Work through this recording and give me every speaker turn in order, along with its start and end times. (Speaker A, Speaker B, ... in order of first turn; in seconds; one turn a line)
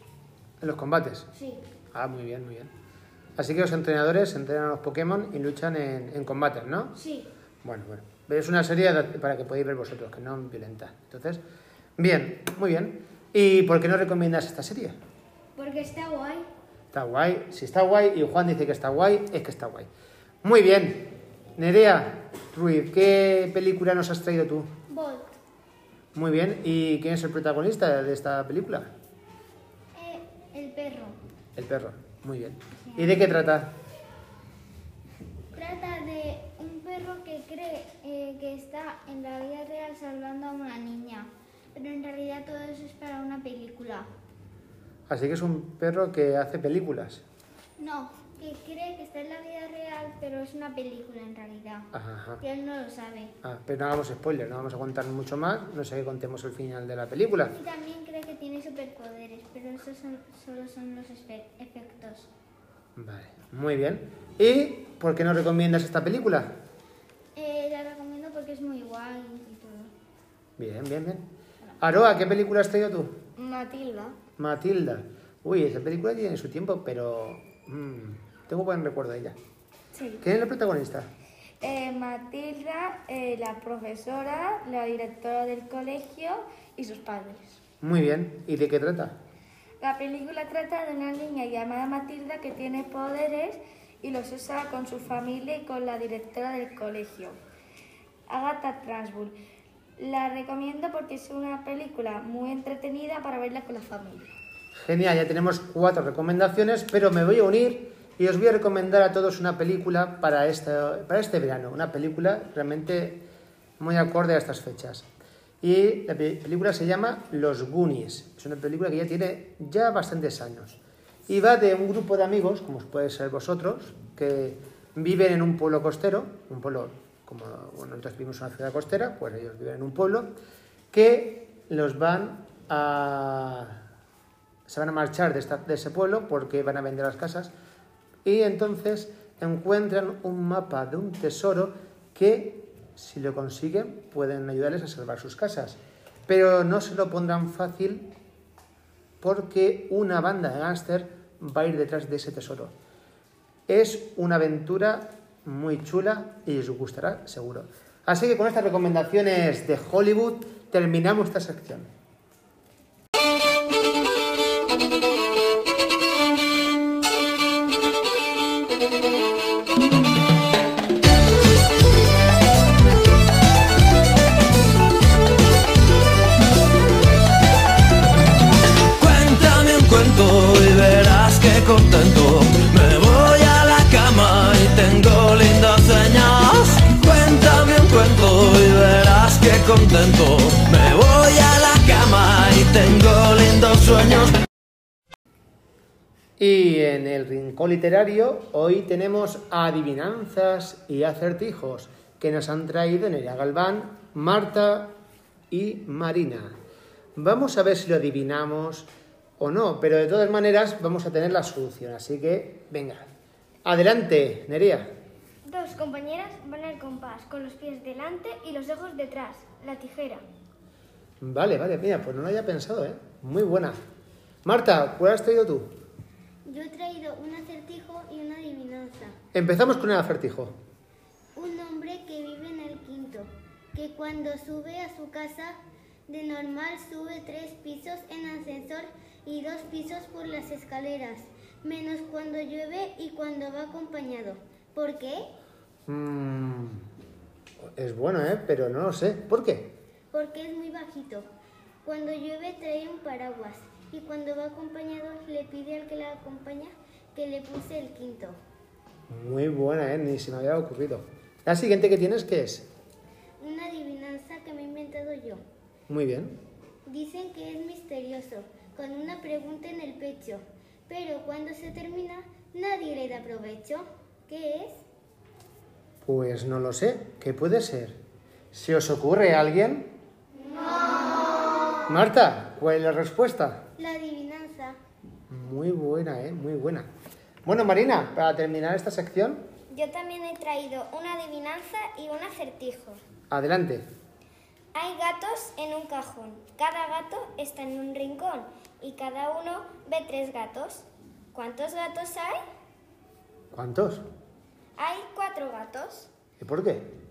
Speaker A: 0.6-1.3
Speaker A: 1.9-2.7
Speaker A: 3.4-6.9
Speaker B: 7.0-7.2
Speaker A: 7.6-11.4
Speaker A: 12.0-15.0
Speaker B: 15.6-16.4
Speaker A: 16.9-19.9
Speaker A: 20.4-24.7
Speaker B: 24.9-25.3
Speaker A: 26.1-28.9
Speaker B: 29.9-31.2
Speaker A: 31.6-33.7
Speaker B: 32.9-33.3
Speaker B: 35.5-44.1
Speaker A: 45.1-47.2
Speaker B: 47.8-53.3
Speaker A: 51.9-52.4
Speaker A: 53.4-57.5
Speaker B: 57.5-62.3
Speaker A: 63.0-66.6
Speaker B: 67.3-69.9
Speaker A: 70.6-73.2
Speaker C: 73.4-74.1
Speaker A: 74.4-79.4
Speaker C: 79.9-80.2
Speaker A: 80.2-81.1
Speaker C: 81.6-87.6
Speaker A: 87.8-89.2
Speaker C: 89.8-97.4
Speaker C: 98.3-99.4
Speaker C: 100.0-104.3
Speaker A: 104.8-113.2
Speaker A: 113.8-115.1
Speaker A: 115.6-130.3
Speaker A: 130.9-133.8
Speaker A: 134.7-137.5
Speaker A: 138.2-148.1
Speaker A: 149.2-152.7
Speaker A: 153.7-161.9
Speaker D: 179.0-194.3
Speaker A: 196.4-205.0
Speaker A: 205.5-206.6
Speaker A: 207.2-213.1
Speaker A: 213.6-214.9
Speaker E: 215.5-219.8
Speaker A: 221.2-223.8
Speaker A: 224.4-225.8
Speaker B: 226.4-229.2
Speaker A: 229.3-230.6
Speaker B: 231.3-235.6
Speaker B: 236.1-245.3
Speaker A: 245.9-246.8
Speaker A: 247.6-249.8
Speaker B: 250.1-251.3
Speaker B: 251.8-258.4
Speaker A: 259.1-262.7
Speaker B: 263.4-265.4
Speaker A: 265.9-266.4
Speaker B: 266.9-274.8
Speaker A: 276.0-278.0
Speaker A: 278.5-279.9
Speaker A: 281.9-283.6
Speaker B: 283.8-284.8
Speaker A: 285.3-286.9
Speaker A: 287.4-289.4
Speaker E: 289.7-293.0
Speaker A: 293.3-293.9
Speaker E: 294.7-302.4
Speaker A: 303.5-304.1
Speaker E: 304.8-306.1
Speaker A: 306.4-306.9